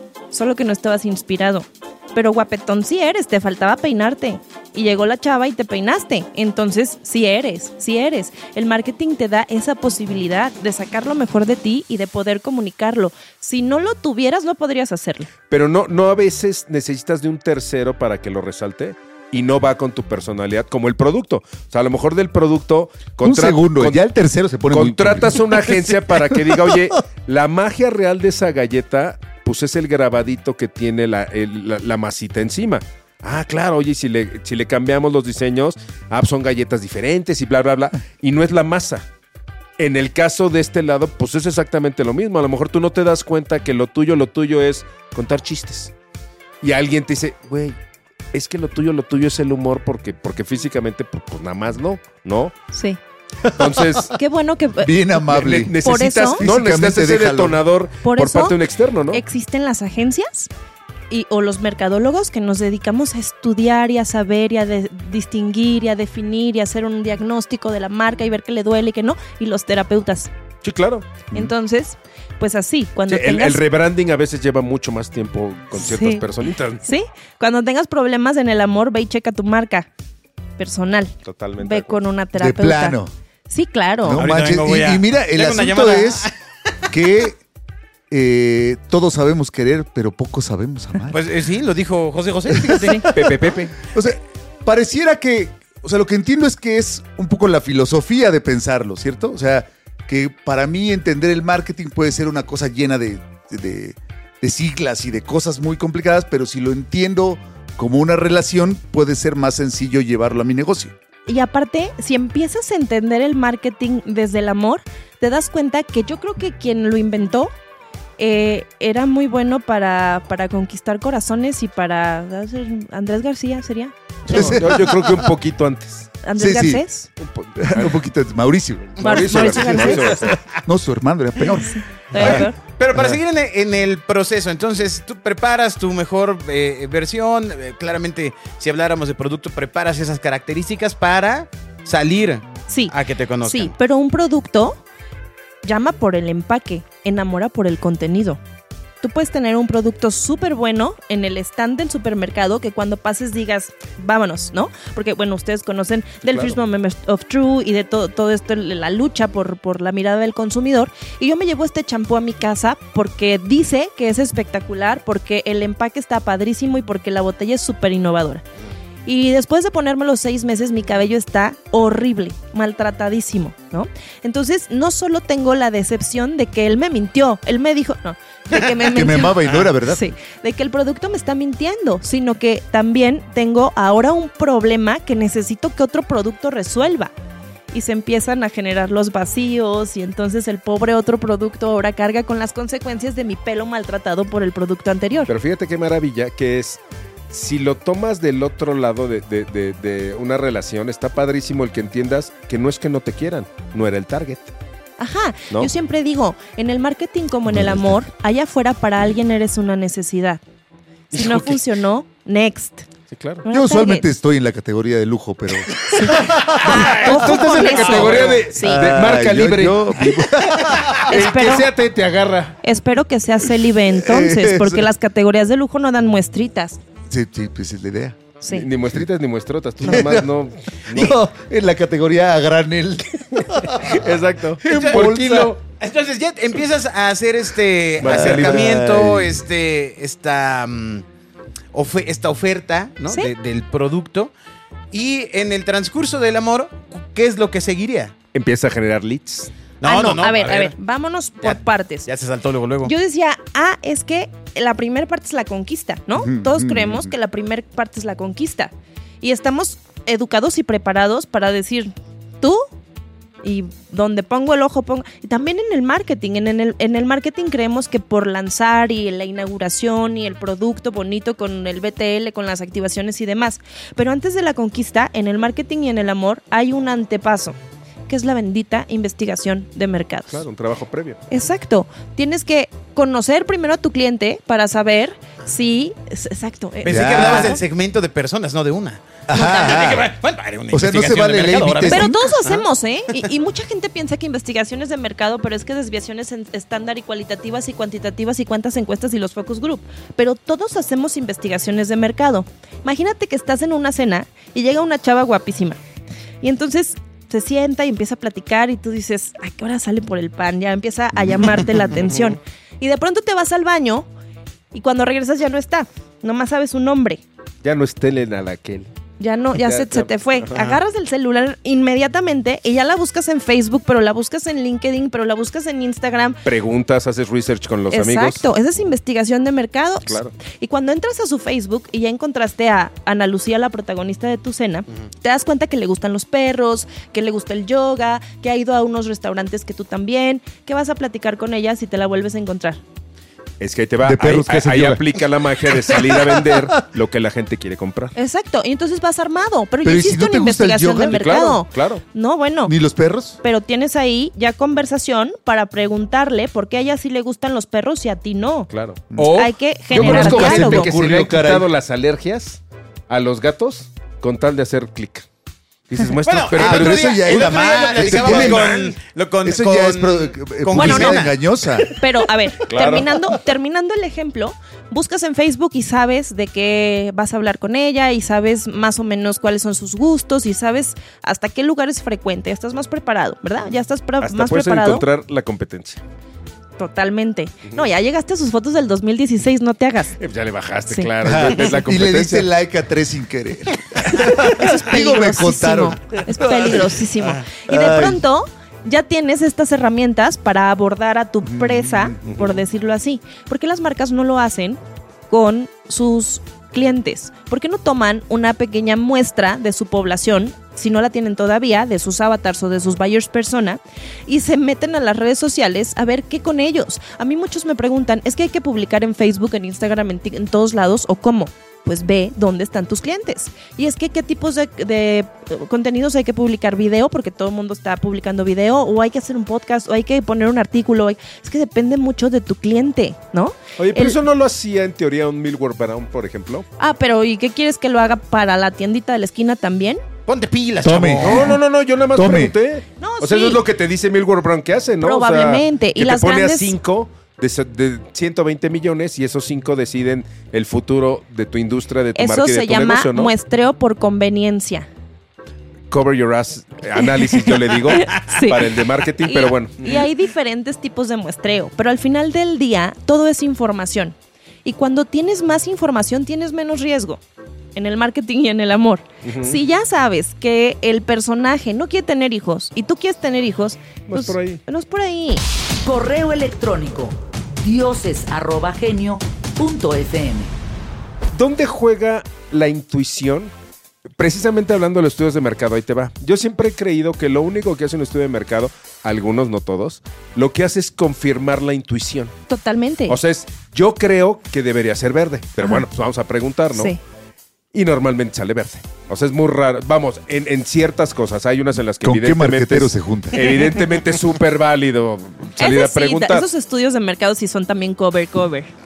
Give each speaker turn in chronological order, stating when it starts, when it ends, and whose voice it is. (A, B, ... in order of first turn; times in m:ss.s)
0:00.3-0:15.3 A
0:15.5-0:24.0 B
0:23.2-0:26.8 C
0:24.7-0:39.0 B
0:39.8-0:45.9 B
0:46.6-0:47.8 B
0:48.3-0:52.5 B
0:52.7-0:53.0 A
0:53.5-0:54.0 C
0:53.5-0:54.2 B
0:54.1-0:55.1 A
0:54.8-0:57.6 C
0:55.3-0:59.2 B
0:55.8-0:56.4 A
0:58.0-0:58.6 A
0:59.1-1:00.5 A
1:01.1-1:10.3 A
1:10.6-1:11.3 B
1:11.3-1:13.6 A
1:13.1-1:16.8 B
1:15.8-1:16.2 A
1:16.8-1:19.9 A
1:20.6-1:23.0 A
1:21.2-1:22.0 B
1:22.4-1:23.1 C
1:23.5-1:24.2 A
1:24.0-1:26.3 C
1:24.2-1:26.3 D
1:26.9-1:27.4 C
1:28.1-1:31.2 C
1:31.1-1:33.1 D
1:32.5-1:50.9 C
1:33.1-1:33.7 B
1:51.3-1:57.5 A
1:58.2-2:04.6 A
2:04.3-2:05.3 C
2:04.3-2:06.1 B
2:06.2-2:07.1 A
2:06.4-2:06.8 C
2:07.2-2:08.0 B
2:07.6-2:12.4 C
2:09.0-2:10.4 B
2:09.0-2:10.3 A
2:11.7-2:12.6 A
2:12.2-2:23.7 D
2:22.7-2:24.8 A
2:25.6-2:28.4 A
2:29.0-2:48.4 A
2:36.3-2:36.6 B
2:49.1-3:07.1 A
2:58.8-3:00.0 C
2:59.4-2:59.7 D
3:07.7-3:15.3 A
3:15.3-3:16.8 B
3:17.3-3:24.5 B
3:25.0-3:30.4 A
3:27.5-3:28.0 C
3:31.1-3:32.9 A
3:31.1-3:31.6 B
3:33.1-3:33.4 B
3:33.4-3:34.1 A
3:33.5-3:41.3 C
3:35.8-3:42.6 B
3:36.0-3:38.9 A
3:37.1-3:38.4 D
3:41.1-3:41.7 A
3:42.6-3:46.8 A
3:43.9-3:44.9 C
3:47.1-3:48.2 C
3:48.4-3:48.7 A
3:48.5-3:51.2 B
3:49.8-3:50.3 C
3:50.9-3:54.0 C
3:53.5-3:55.5 B
3:54.6-3:55.5 C
3:54.7-4:01.0 D
3:58.0-3:58.8 B
3:58.0-3:59.4 C
4:01.7-4:04.3 D
4:04.9-4:08.1 D
4:08.3-4:09.5 B
4:09.8-4:10.8 D
4:09.8-4:12.1 A
4:11.4-4:12.9 D
4:12.8-4:22.6 A
4:16.2-4:17.1 C
4:23.4-4:37.6 A
4:38.1-4:40.4 A
4:40.3-4:41.2 B
4:41.3-4:47.6 A
4:46.8-4:52.6 D
4:46.9-4:47.6 C
4:49.3-4:50.1 C
4:50.7-4:52.3 C
4:51.9-5:05.8 A
5:06.4-5:14.1 A
5:12.0-5:12.3 B
5:14.7-5:17.2 A
5:17.6-5:18.9 B
5:19.2-5:26.4 A
5:19.6-5:20.8 B
5:26.4-5:28.4 B
5:27.9-5:42.8 A
5:30.1-5:30.3 B
5:43.6-5:48.1 B
5:44.0-5:46.7 C
5:48.2-5:52.8 A
5:49.8-5:51.3 C
5:51.1-5:52.0 B
5:52.7-5:53.4 C
5:53.4-6:00.9 A
5:58.7-6:05.3 B
5:59.9-6:01.7 C
6:05.9-6:08.9 B
6:06.2-6:11.4 D
6:06.5-6:08.8 C
6:09.4-6:11.9 C
6:10.8-6:11.2 A
6:11.9-6:25.1 A
6:12.7-6:13.1 B
6:24.2-6:26.0 B
6:26.8-6:30.2 A
6:30.2-6:32.5 B
6:31.2-6:37.0 C
6:34.1-6:44.8 A
6:37.5-6:38.2 C
6:41.4-6:42.2 C
6:42.3-6:42.6 B
6:45.3-7:14.2 A
7:13.8-7:16.7 B
7:16.8-7:20.0 A
7:20.3-7:21.6 D
7:20.8-7:21.6 C
7:21.2-7:33.3 B
7:22.1-7:22.6 C
7:23.0-7:23.6 A
7:25.0-7:26.8 A
7:32.2-7:34.9 A
7:35.9-7:40.0 B
7:37.0-7:47.2 A
7:47.8-7:55.4 A
7:49.2-7:49.6 B
7:54.1-7:54.6 B
7:55.8-8:00.5 E
8:01.3-8:03.5 B
8:04.2-8:12.3 B
8:12.5-8:13.2 A
8:13.1-8:17.0 B
8:17.7-8:26.5 B
8:22.0-8:23.6 C
8:25.6-8:28.7 A